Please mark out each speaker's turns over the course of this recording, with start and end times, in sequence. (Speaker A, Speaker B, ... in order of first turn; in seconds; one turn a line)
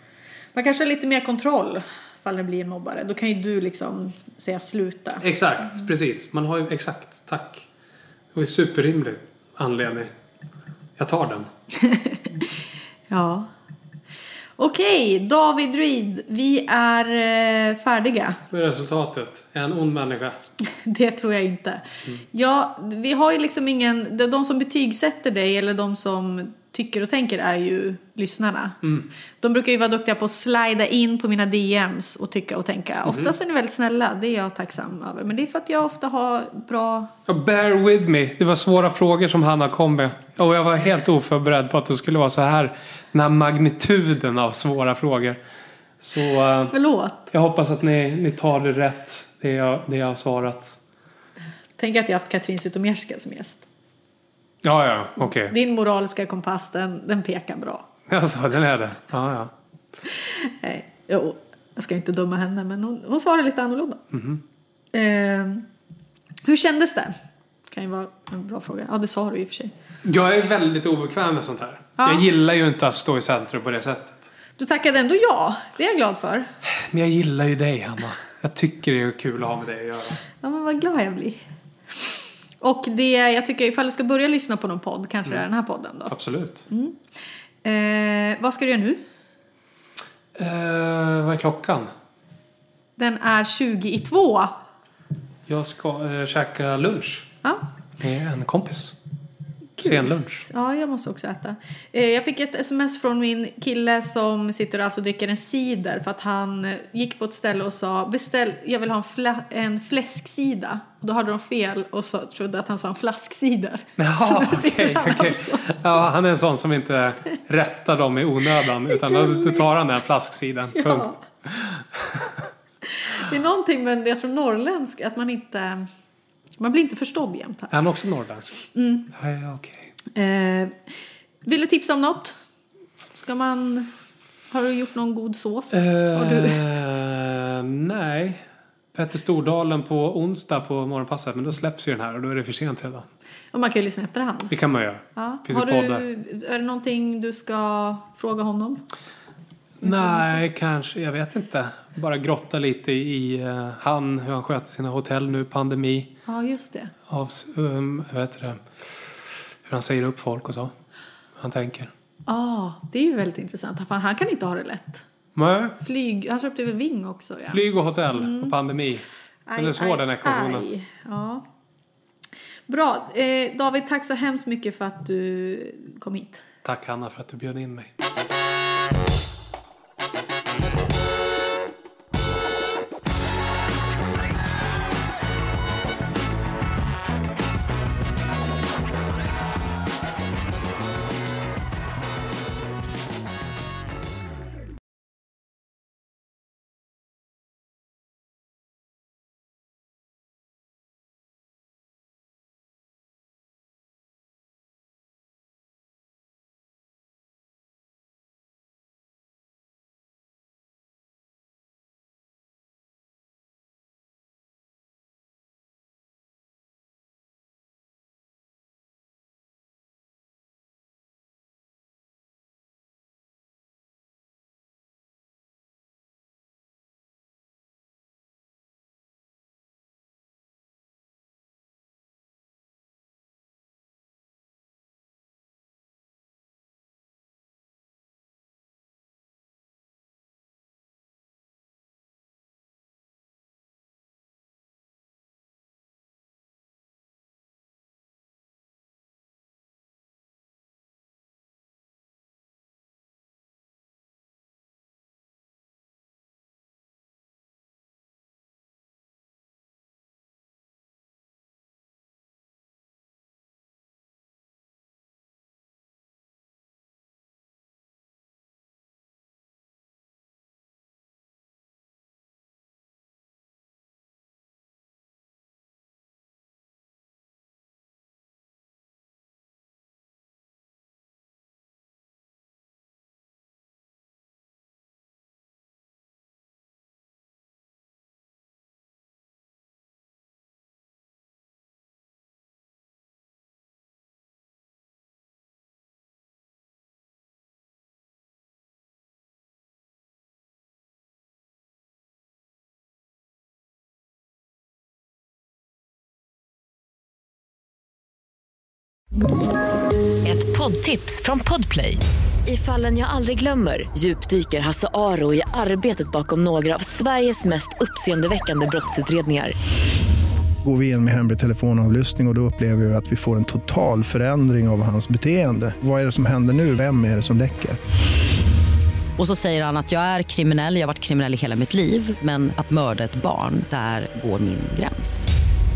Speaker A: 0.5-5.8
Speaker B: 5.2-7.7
Speaker B: 8.3-10.1
Speaker B: 11.0-11.5
Speaker A: 11.7-13.5
Speaker A: 14.6-18.4
Speaker B: 18.5-20.4
Speaker A: 20.6-28.8
Speaker A: 29.4-37.1
Speaker B: 33.1-33.3
Speaker B: 37.3-45.4
Speaker B: 46.0-46.8
Speaker A: 46.7-47.3
Speaker B: 47.3-50.8
Speaker A: 51.8-53.7
Speaker B: 54.6-55.5
Speaker A: 55.2-57.9
Speaker B: 58.1-59.5
Speaker A: 60.1-64.0
Speaker B: 64.1-64.4
Speaker A: 64.9-65.7
Speaker A: 66.5-67.2
Speaker A: 67.7-69.7
Speaker B: 70.0-74.3
Speaker A: 72.0-72.3
Speaker A: 74.6-76.5
Speaker B: 76.8-80.2
Speaker A: 80.4-86.1
Speaker B: 86.1-86.7
Speaker A: 86.7-87.0
Speaker A: 87.6-89.0
Speaker B: 90.4-91.9
Speaker A: 93.0-94.5
Speaker B: 95.5-97.3
Speaker B: 98.0-99.0
Speaker A: 99.8-115.7
Speaker B: 99.8-100.5
Speaker B: 114.0-122.3
Speaker A: 118.9-119.6
Speaker A: 120.8-121.2
Speaker A: 122.8-125.9
Speaker A: 126.6-127.8
Speaker B: 127.7-129.9
Speaker A: 128.7-129.1
Speaker A: 130.1-132.4
Speaker A: 133.2-133.9
Speaker A: 134.5-136.6
Speaker B: 135.7-138.4
Speaker B: 138.9-143.1
Speaker A: 143.5-144.5
Speaker B: 144.5-146.1
Speaker A: 145.2-148.8
Speaker B: 149.8-156.2
Speaker A: 149.8-150.4
Speaker A: 156.3-156.9
Speaker B: 157.1-158.6
Speaker B: 159.7-160.7
Speaker B: 161.4-161.9
Speaker A: 162.3-165.1
Speaker B: 165.4-165.8
Speaker A: 165.8-168.6
Speaker B: 167.5-169.1
Speaker A: 169.5-171.4
Speaker B: 169.6-170.7
Speaker A: 172.7-176.4
Speaker B: 176.6-177.9
Speaker C: 310.2-319.5
Speaker D: 320.6-327.8
Speaker E: 329.2-335.3